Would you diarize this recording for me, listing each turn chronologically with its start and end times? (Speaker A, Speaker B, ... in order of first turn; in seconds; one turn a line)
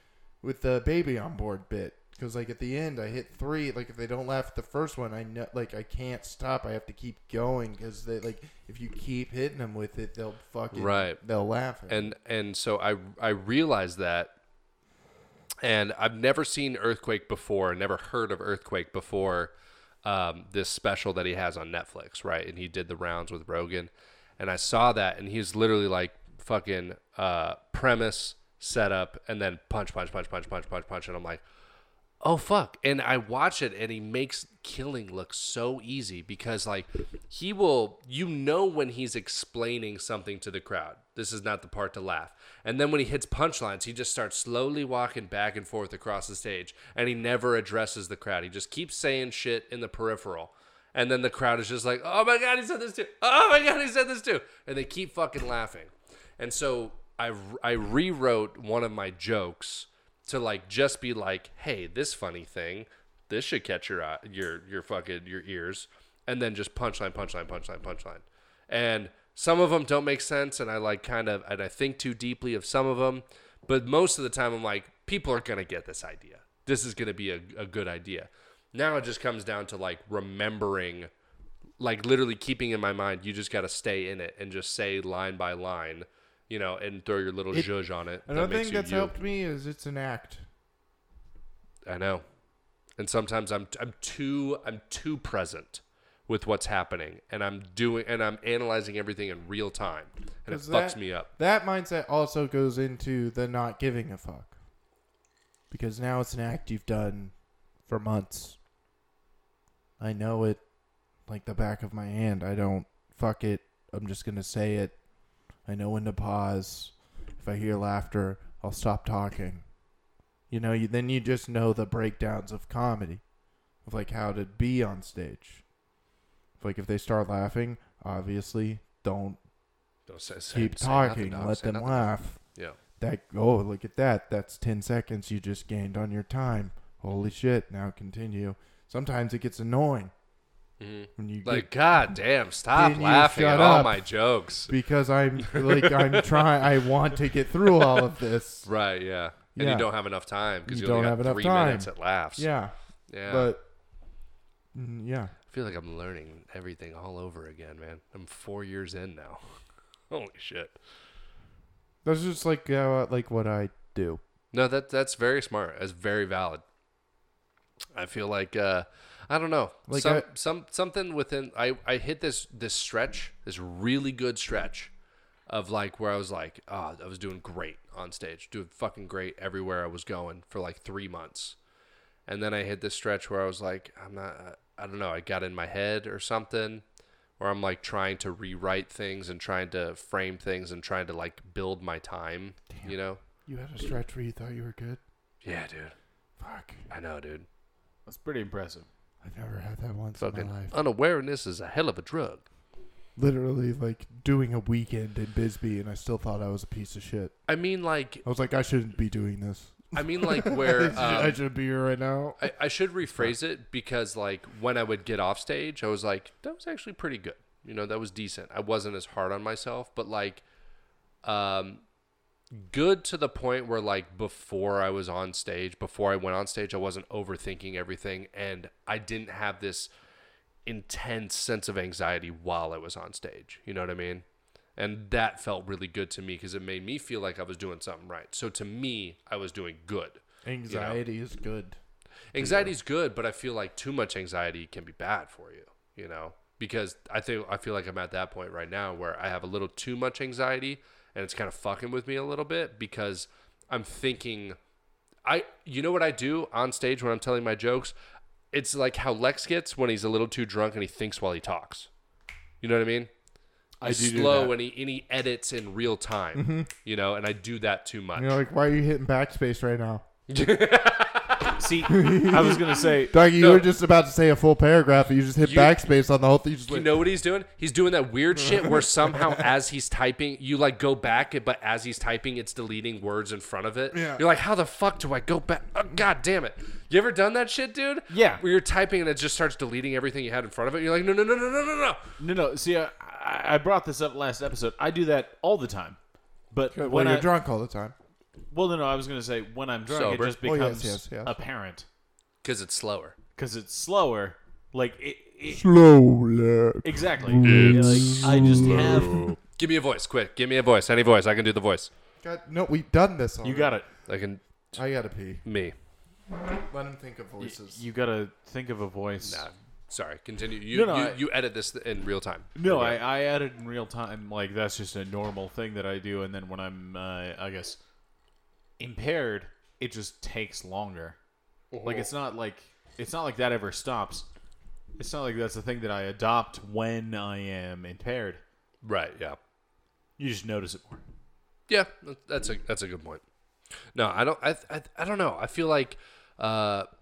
Speaker A: 0.4-12.1
Speaker B: 10.7-11.2
Speaker B: 11.9-14.3
Speaker B: 15.6-19.5
Speaker B: 20.0-31.4
Speaker B: 32.2-81.1
Speaker B: 81.8-89.1
Speaker A: 88.3-90.4
Speaker B: 91.8-92.2
Speaker B: 93.0-101.3
Speaker A: 100.5-104.5
Speaker A: 105.7-107.3
Speaker A: 107.9-108.6
Speaker A: 110.0-110.6
Speaker A: 111.3-114.9
Speaker A: 115.7-119.6
Speaker A: 120.5-123.2
Speaker A: 123.8-125.6
Speaker A: 126.6-129.4
Speaker B: 130.1-132.8
Speaker A: 130.5-132.4
Speaker A: 133.0-140.1
Speaker B: 140.8-144.7
Speaker A: 141.2-142.1
Speaker A: 142.7-144.1
Speaker A: 144.7-148.7
Speaker B: 145.4-146.5
Speaker B: 147.7-148.0
Speaker B: 148.6-152.5
Speaker A: 149.6-149.9
Speaker A: 150.7-152.7
Speaker B: 153.1-153.5
Speaker A: 153.3-153.6
Speaker A: 154.7-155.3
Speaker B: 155.5-159.6
Speaker B: 160.1-160.8
Speaker A: 162.0-164.2
Speaker B: 164.5-166.6
Speaker B: 167.9-174.9
Speaker A: 169.9-170.3
Speaker B: 175.5-181.6
Speaker B: 182.3-186.8
Speaker B: 187.4-193.2
Speaker A: 193.4-195.0
Speaker B: 195.4-195.9
Speaker A: 196.4-196.9
Speaker B: 196.9-197.4
Speaker C: 198.1-198.9
Speaker A: 199.2-200.8
Speaker B: 200.2-202.4
Speaker A: 203.2-207.3
Speaker B: 207.5-208.2
Speaker A: 208.2-212.5
Speaker B: 209.9-211.4
Speaker B: 212.4-220.4
Speaker B: 221.2-221.8
Speaker B: 222.6-229.9
Speaker B: 230.7-234.2
Speaker B: 234.8-241.0
Speaker A: 240.4-241.8
Speaker B: 242.3-254.6
Speaker A: 242.3-242.7
Speaker B: 255.2-257.9
Speaker B: 258.5-261.9
Speaker B: 262.6-263.1
Speaker C: 263.8-264.6
Speaker B: 263.8-268.4
Speaker A: 266.3-266.7
Speaker A: 268.1-270.1
Speaker B: 270.3-271.6
Speaker C: 271.6-273.1
Speaker A: 271.9-277.0
Speaker B: 273.2-273.7
Speaker B: 275.4-275.8
Speaker B: 276.7-292.0
Speaker A: 278.4-279.5
Speaker A: 283.9-284.2
Speaker C: 288.1-288.4
Speaker C: 292.2-296.0
Speaker C: 296.5-297.3
Speaker A: 296.7-297.9
Speaker C: 298.5-301.9
Speaker B: 299.9-300.4
Speaker A: 300.4-301.3
Speaker B: 302.4-303.1
Speaker C: 303.4-305.6
Speaker A: 305.5-309.3
Speaker C: 306.8-309.3
Speaker B: 307.4-311.9
Speaker A: 312.2-313.7
Speaker C: 313.4-313.9
Speaker B: 314.1-314.8
Speaker A: 314.7-315.4
Speaker B: 315.4-315.7
Speaker A: 316.5-317.8
Speaker C: 317.4-319.5
Speaker B: 319.2-323.0
Speaker C: 320.7-321.2
Speaker C: 322.6-327.8
Speaker C: 328.8-331.2
Speaker B: 331.7-332.1
Speaker C: 331.8-334.3
Speaker C: 335.0-338.4
Speaker B: 338.8-339.4
Speaker C: 340.2-341.0
Speaker B: 341.7-343.2
Speaker B: 343.9-346.9